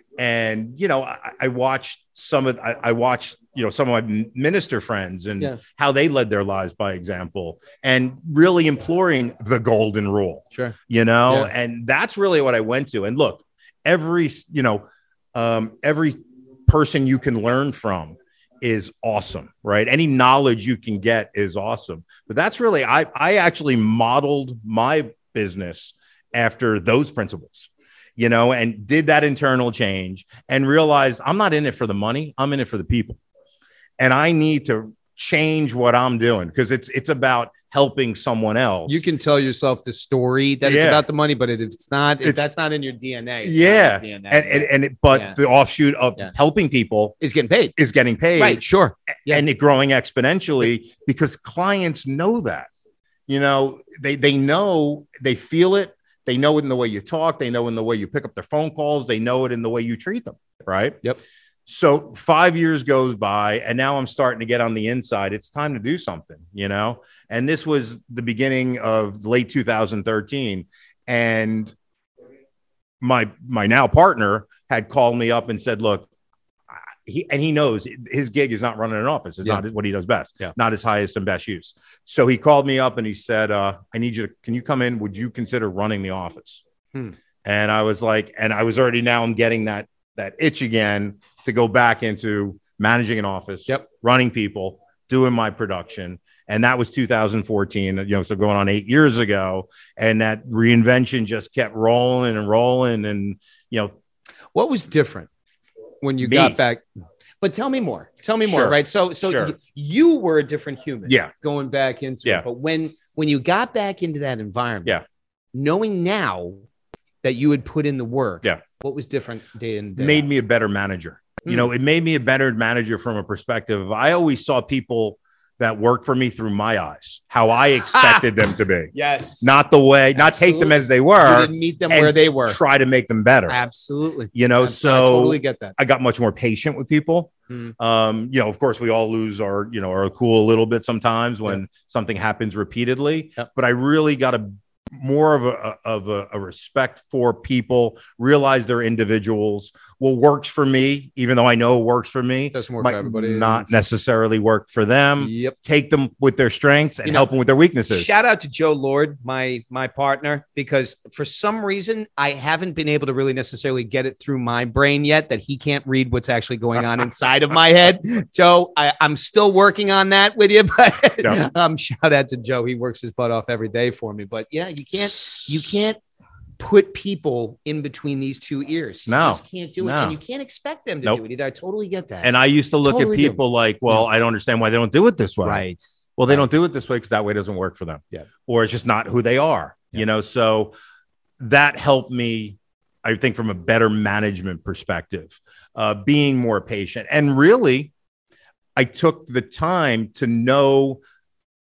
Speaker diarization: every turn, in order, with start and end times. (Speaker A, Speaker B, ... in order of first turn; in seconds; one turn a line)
Speaker A: 0.2-14.8
Speaker A: 15.3-33.2
Speaker A: 34.0-39.0
Speaker B: 38.9-45.4
Speaker A: 40.6-41.0
Speaker A: 43.4-47.1
Speaker B: 47.2-47.7
Speaker A: 47.8-48.6
Speaker B: 48.4-49.4
Speaker A: 49.2-52.7
Speaker A: 53.3-61.0
Speaker A: 61.6-71.7
Speaker A: 73.0-76.1
Speaker A: 76.7-86.6
Speaker A: 87.4-103.9
Speaker B: 104.5-105.3
Speaker B: 106.0-106.8
Speaker A: 106.2-106.6
Speaker B: 107.4-115.0
Speaker A: 108.4-109.5
Speaker A: 111.0-111.3
Speaker B: 115.5-116.6
Speaker B: 117.2-120.3
Speaker A: 120.0-133.6
Speaker B: 127.9-128.2
Speaker B: 128.9-129.5
Speaker B: 130.1-132.6
Speaker B: 133.5-135.8
Speaker A: 134.3-158.1
Speaker B: 152.5-153.8
Speaker B: 155.2-155.5
Speaker B: 157.9-176.0
Speaker B: 176.6-182.3
Speaker A: 179.1-180.2
Speaker A: 182.2-185.6
Speaker B: 182.8-184.1
Speaker B: 185.4-186.4
Speaker A: 186.2-190.7
Speaker A: 191.4-197.9
Speaker A: 198.8-201.0